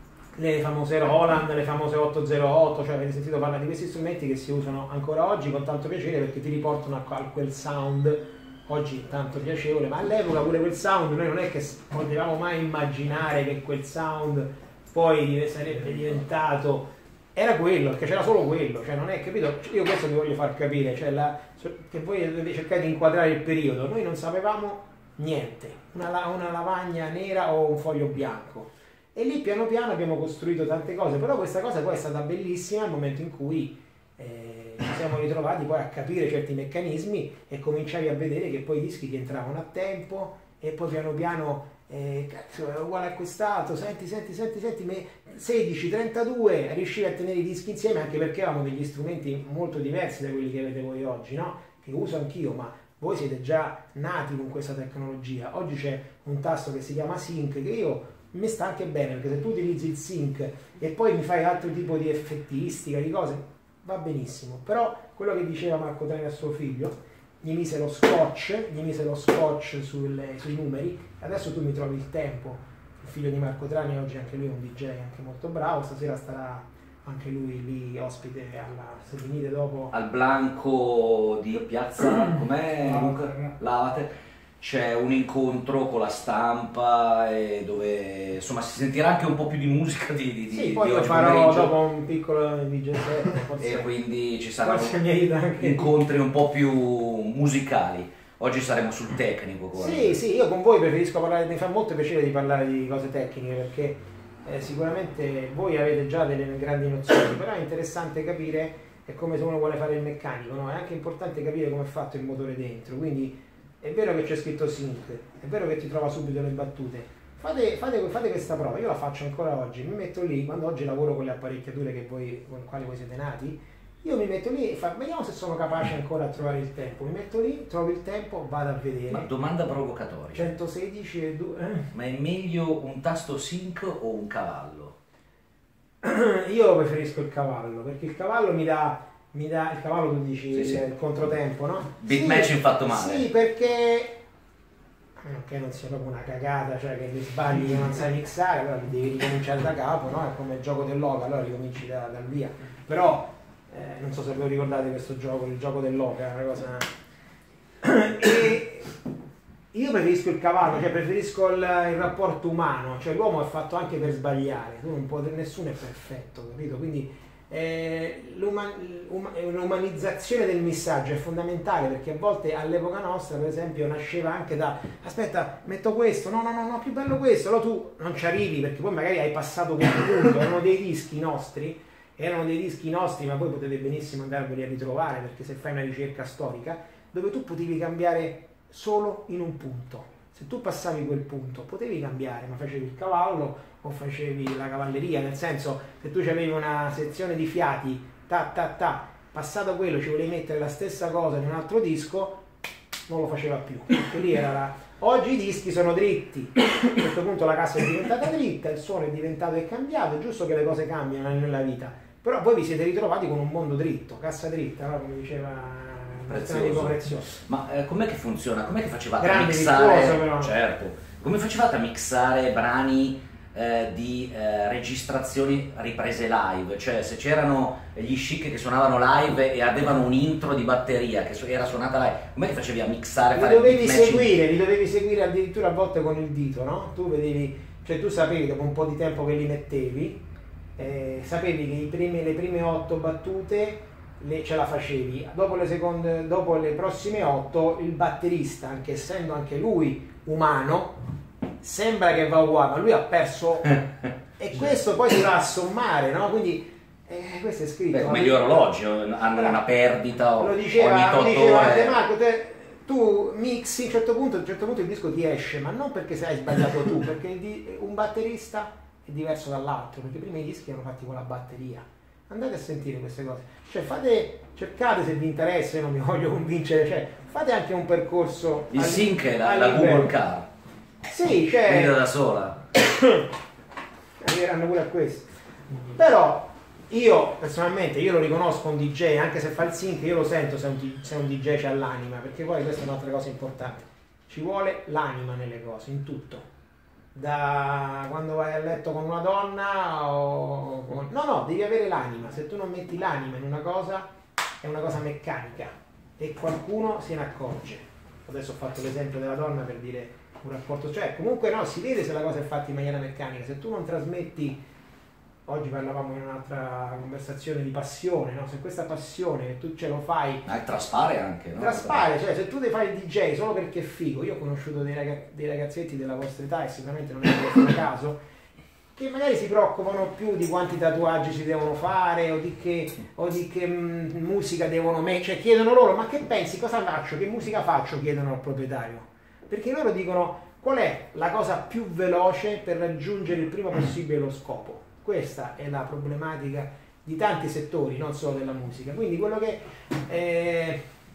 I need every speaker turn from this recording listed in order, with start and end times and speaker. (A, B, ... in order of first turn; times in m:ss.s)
0:00.4-1:20.0 A
1:19.9-1:31.8 B
1:22.8-1:23.5 A
1:30.5-1:33.9 A
1:33.6-1:35.0 B
1:34.6-1:36.0 A
1:35.6-1:40.2 B
1:39.7-2:09.3 A
2:09.1-2:10.5 B
2:10.3-2:11.9 A
2:11.9-2:15.0 B
2:16.0-2:24.2 A
2:20.5-2:20.8 B
2:22.0-2:23.3 B
2:25.2-2:36.9 A
2:37.8-2:39.0 A
2:39.7-3:22.4 A
3:23.1-3:37.4 A
3:36.3-3:54.3 B
3:39.2-3:40.6 A
3:53.3-4:00.2 A
4:00.8-4:11.0 A
4:11.6-4:18.6 A
4:17.9-4:22.0 B
4:19.3-4:19.6 A
4:20.4-4:40.2 A
4:38.7-4:40.5 B
4:41.1-4:42.0 A
4:41.6-4:42.6 B
4:42.9-4:43.2 A
4:44.2-4:45.3 A
4:45.9-4:56.5 A
4:57.1-5:04.1 A
5:04.6-5:14.6 A
5:15.5-5:20.5 A
5:20.5-5:22.1 B
5:21.6-5:28.2 A
5:28.9-5:50.8 A